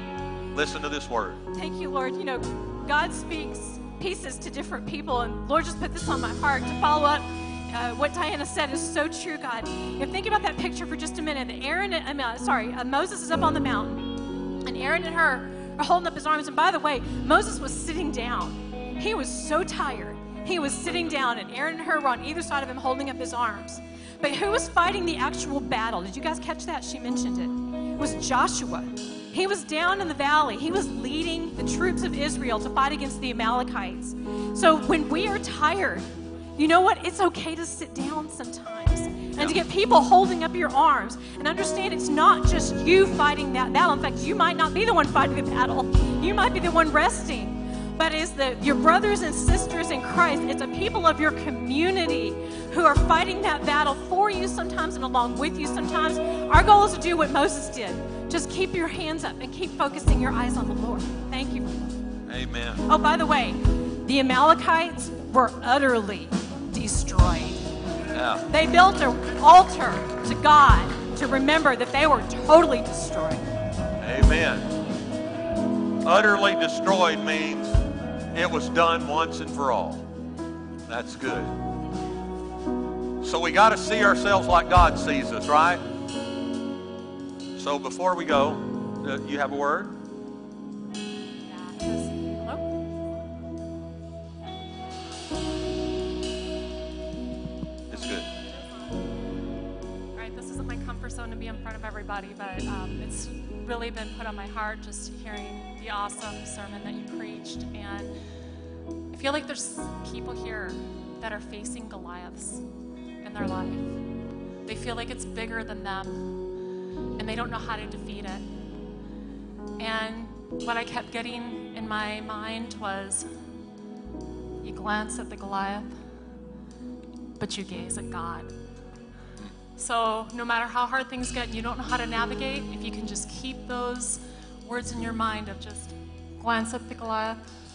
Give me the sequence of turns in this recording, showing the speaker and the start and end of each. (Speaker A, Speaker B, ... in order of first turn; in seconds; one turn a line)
Speaker A: 0.5-1.4
Speaker B: 1.5-61.9
Speaker A: 39.4-39.6
Speaker A: 62.3-62.9
Speaker B: 62.9-67.6
Speaker A: 68.1-68.5
Speaker B: 68.5-73.5
Speaker A: 74.0-74.7
Speaker A: 76.0-77.7
Speaker A: 78.3-80.0
Speaker A: 80.9-81.5
Speaker A: 83.2-85.8
Speaker A: 87.5-90.0
Speaker C: 91.5-92.6
Speaker B: 91.8-92.1
Speaker A: 97.9-98.3
Speaker C: 100.1-108.1
Speaker C: 109.1-112.6
Speaker C: 113.2-114.0
Speaker C: 114.6-116.3
Speaker C: 117.2-118.5
Speaker C: 119.8-123.3
Speaker C: 124.6-126.0
Speaker C: 127.4-128.5
Speaker C: 129.8-137.5